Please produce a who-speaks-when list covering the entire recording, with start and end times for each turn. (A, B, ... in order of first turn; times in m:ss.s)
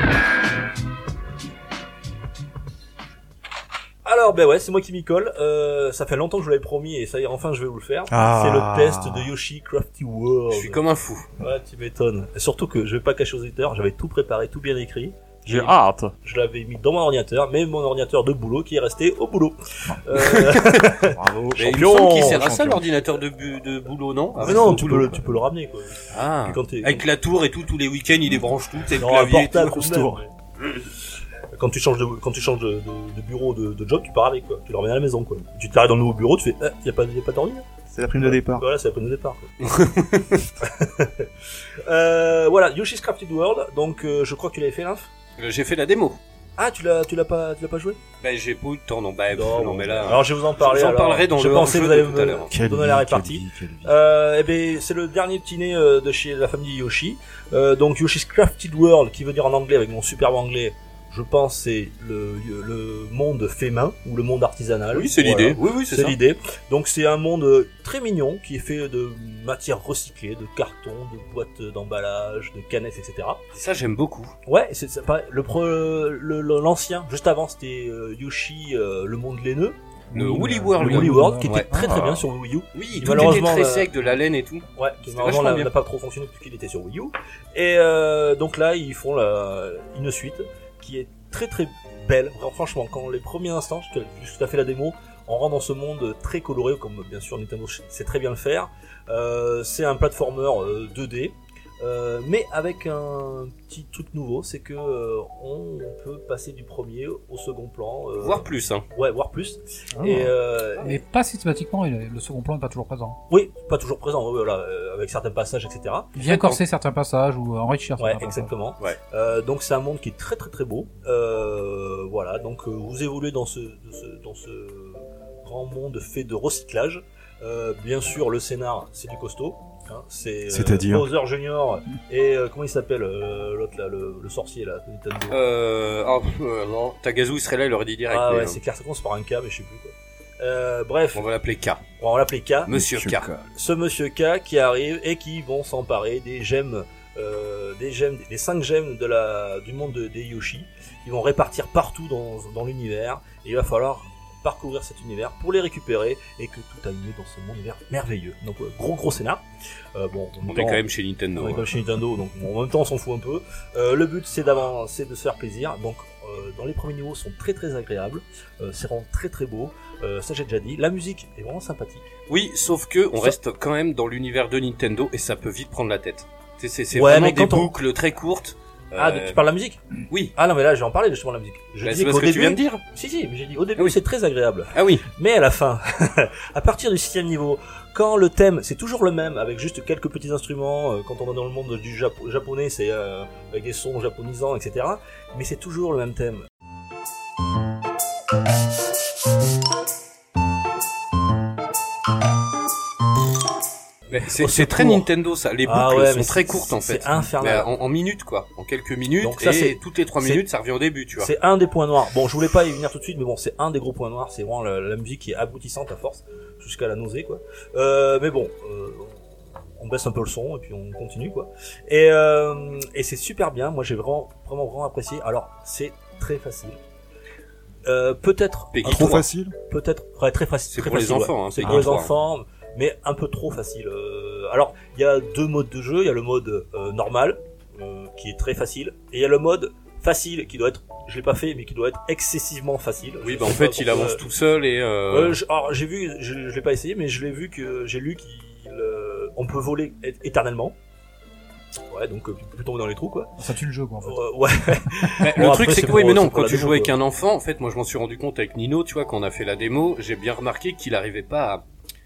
0:04.0-0:10.8 A
0:08.1-0:09.3 B
0:10.5-0:11.2 C
0:11.4-0:22.5 A
0:15.4-0:16.1 B
0:20.2-0:20.8 C
0:21.0-0:22.9 B
0:21.6-0:25.1 C
0:24.4-0:25.4 B
0:24.4-0:27.0 A
0:26.1-0:29.8 C
0:28.9-0:30.3 A
0:29.6-0:30.2 B
0:31.5-0:37.6 A
0:37.9-0:38.6 B
0:38.2-0:39.5 A
0:39.6-0:40.4 C
0:40.6-0:41.3 A
0:41.8-0:45.1 A
0:45.4-0:46.2 C
0:46.6-0:48.0 A
0:48.2-0:52.5 C
0:49.3-1:13.4 A
0:52.5-0:54.0 B
1:04.9-1:06.2 C
1:13.5-1:14.3 C
1:14.4-1:19.8 A
1:20.1-1:21.9 D
1:20.1-1:22.2 C
1:20.5-1:23.9 A
1:22.7-1:25.7 C
1:24.8-1:51.0 A
1:48.2-1:48.8 C
1:50.0-1:53.2 D
1:53.3-1:56.6 A
1:56.1-1:58.5 D
1:58.0-2:15.4 A
2:10.5-2:11.1 B
2:15.3-2:18.6 C
2:18.1-2:21.2 A
2:21.1-2:21.8 C
2:22.0-2:22.8 A
2:22.6-2:23.3 C
2:22.7-2:23.4 B
2:23.5-2:39.4 A
2:39.9-2:40.8 A
2:40.5-2:41.7 C
2:41.4-2:52.0 A
2:52.3-2:59.4 C
2:56.9-2:57.7 A
2:59.0-2:59.8 A
3:00.3-3:16.4 A
3:01.8-3:02.8 C
3:04.7-3:05.0 C
3:24.1-3:31.3 C
3:24.1-3:25.0 A
3:25.6-3:27.7 A
3:29.2-3:30.4 A
3:31.2-3:39.2 A
3:39.8-3:46.8 A
3:47.8-4:04.2 A
3:48.7-3:49.2 C
3:48.8-3:49.5 B
3:50.7-3:52.1 C
4:03.2-4:05.4 C
4:05.1-4:10.8 A
4:11.9-4:13.3 A
4:13.4-4:14.2 D
4:14.0-4:16.9 A
4:15.2-4:21.6 C